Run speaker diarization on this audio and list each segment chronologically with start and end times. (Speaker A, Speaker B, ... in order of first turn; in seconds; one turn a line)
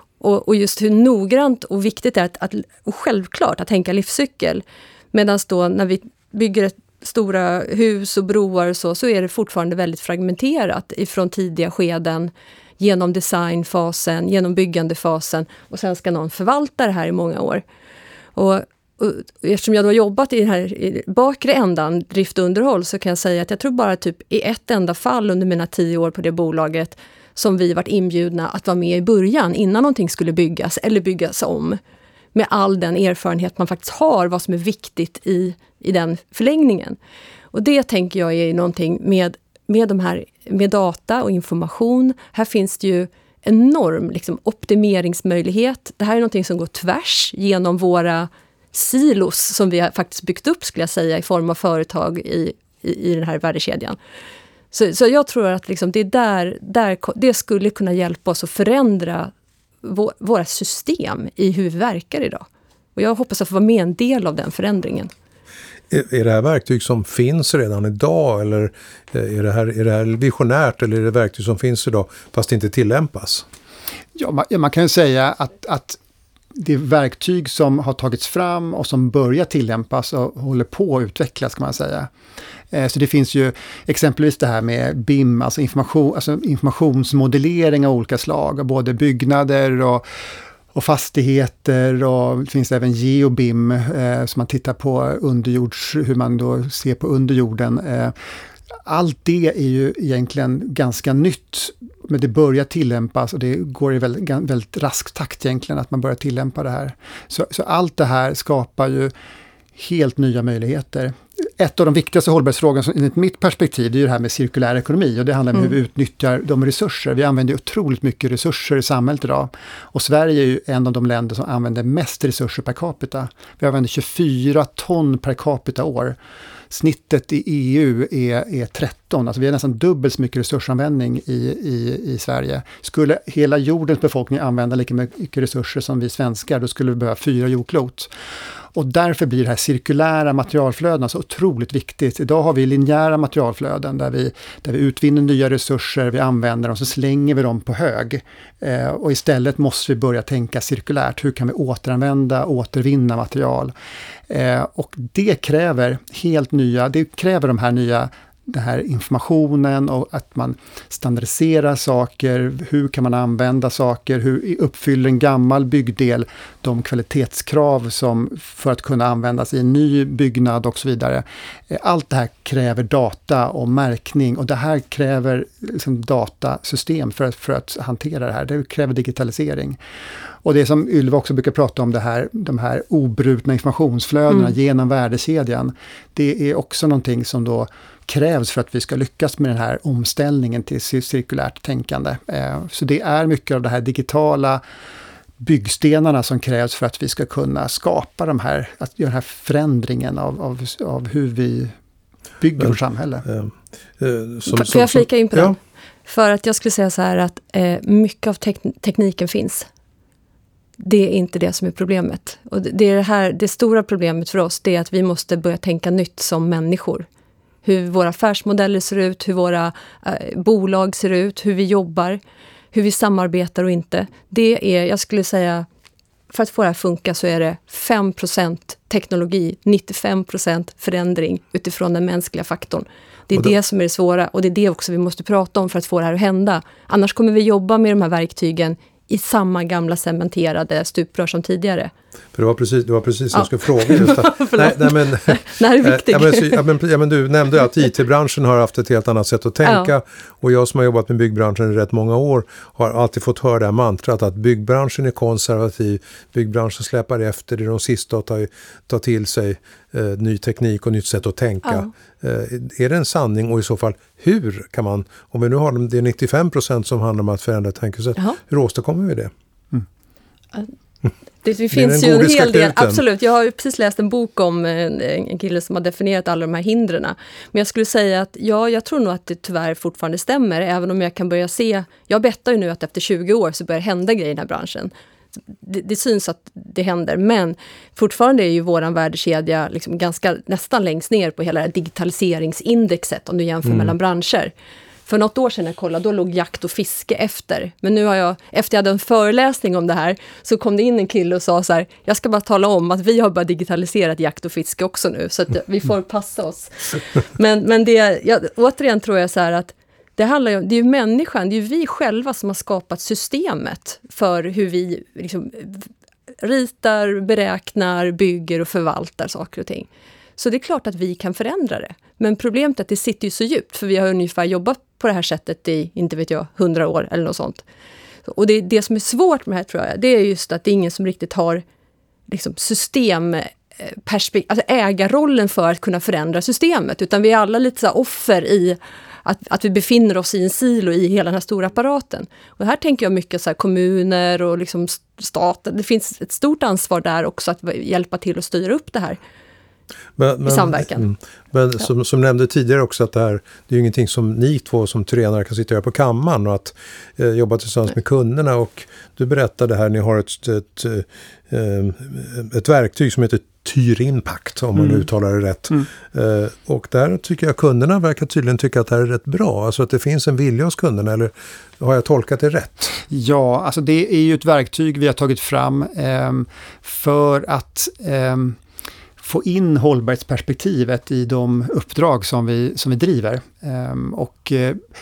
Speaker A: 0.2-17.6
Speaker A: 18.3-31.8
Speaker A: 32.3-37.0
Speaker A: 37.5-54.0
Speaker A: 54.7-59.3
Speaker A: 59.8-62.4
Speaker A: 63.0-65.1
Speaker B: 65.9-73.4
Speaker C: 74.1-76.0
Speaker C: 76.5-82.1
Speaker C: 82.7-90.0
Speaker C: 90.7-98.1
Speaker C: 98.8-109.1
Speaker C: 109.8-126.2
Speaker C: 126.7-138.1
Speaker C: 138.7-153.7
Speaker C: 154.3-179.8
Speaker C: 180.4-194.6
Speaker C: 195.4-201.7
Speaker C: 202.4-203.2
Speaker B: 203.2-205.6
Speaker A: 204.4-209.7
Speaker A: 210.8-217.1
Speaker A: 217.6-222.2
Speaker A: 222.7-225.7
Speaker A: 226.3-241.9
Speaker B: 242.3-269.3
Speaker A: 243.3-246.6
Speaker A: 249.6-249.9
Speaker A: 271.4-284.9
Speaker B: 271.7-273.0
Speaker A: 285.6-294.5
Speaker B: 293.6-293.9
Speaker A: 295.1-315.9
Speaker A: 316.4-327.6
Speaker A: 328.2-331.6
Speaker A: 332.3-349.2
Speaker B: 350.2-373.0
Speaker A: 350.4-351.1
Speaker C: 373.1-378.6
Speaker C: 379.2-384.8